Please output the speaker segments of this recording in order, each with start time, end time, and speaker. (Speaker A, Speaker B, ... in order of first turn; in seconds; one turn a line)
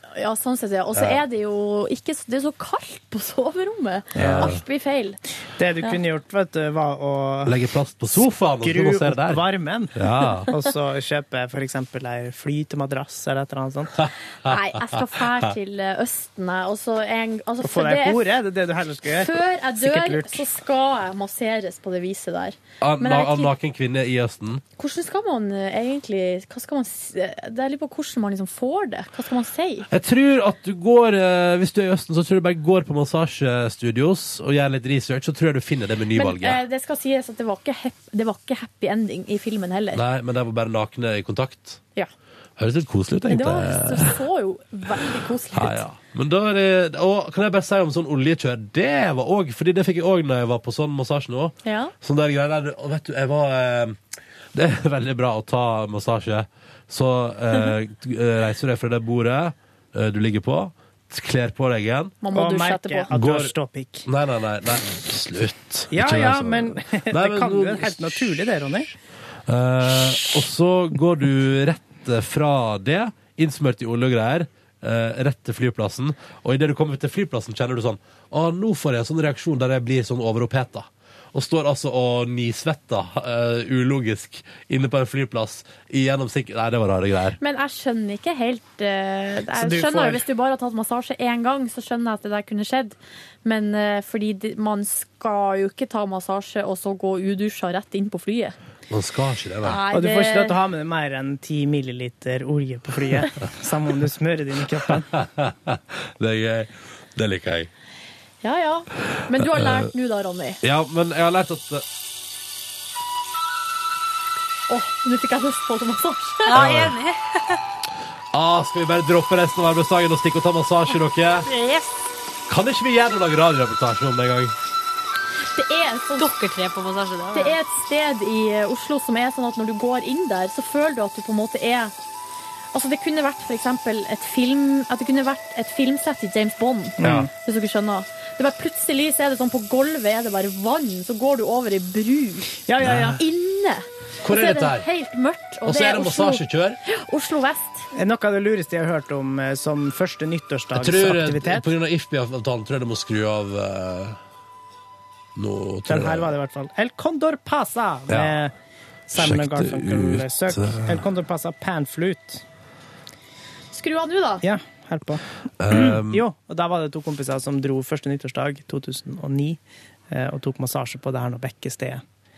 Speaker A: 0.2-5.2
Speaker B: 0.9-1.2
Speaker C: 4.2-4.5
Speaker B: 4.2-4.6
Speaker C: 5.6-7.6
Speaker B: 7.5-9.4
Speaker C: 8.1-14.0
Speaker B: 9.9-10.5
Speaker A: 14.4-18.2
Speaker B: 14.5-15.0
Speaker C: 17.6-20.4
Speaker A: 19.1-23.5
Speaker B: 22.8-24.6
Speaker A: 24.8-29.9
Speaker B: 29.9-36.6
Speaker A: 36.1-40.0
Speaker B: 39.9-41.8
Speaker B: 42.6-44.2
Speaker A: 43.3-45.8
Speaker B: 45.5-54.0
Speaker A: 51.6-51.9
Speaker B: 54.5-62.2
Speaker A: 62.2-63.1
Speaker C: 62.3-64.1
Speaker B: 63.1-63.5
Speaker B: 64.1-68.5
Speaker C: 65.9-68.9
Speaker B: 69.5-87.4
Speaker A: 87.4-98.5
Speaker C: 89.5-90.2
Speaker B: 98.9-99.8
Speaker A: 99.6-100.6
Speaker C: 99.9-105.1
Speaker B: 105.1-107.7
Speaker A: 108.4-110.6
Speaker B: 109.4-109.9
Speaker B: 110.6-111.8
Speaker A: 114.7-116.5
Speaker D: 116.5-117.6
Speaker B: 116.5-117.0
Speaker B: 118.3-121.5
Speaker D: 121.5-122.0
Speaker B: 122.5-124.5
Speaker A: 125.5-126.3
Speaker D: 126.2-127.6
Speaker A: 127.3-131.9
Speaker A: 132.7-142.6
Speaker C: 137.0-137.3
Speaker B: 137.0-137.3
Speaker C: 142.7-143.2
Speaker B: 142.8-143.2
Speaker A: 143.2-147.9
Speaker B: 144.2-144.9
Speaker B: 145.6-146.8
Speaker C: 147.9-151.7
Speaker B: 150.7-154.2
Speaker B: 155.4-156.3
Speaker C: 155.9-158.5
Speaker B: 158.1-158.4
Speaker C: 159.1-162.4
Speaker B: 159.1-161.0
Speaker A: 163.7-164.4
Speaker C: 164.4-169.6
Speaker B: 165.6-166.2
Speaker C: 170.1-172.0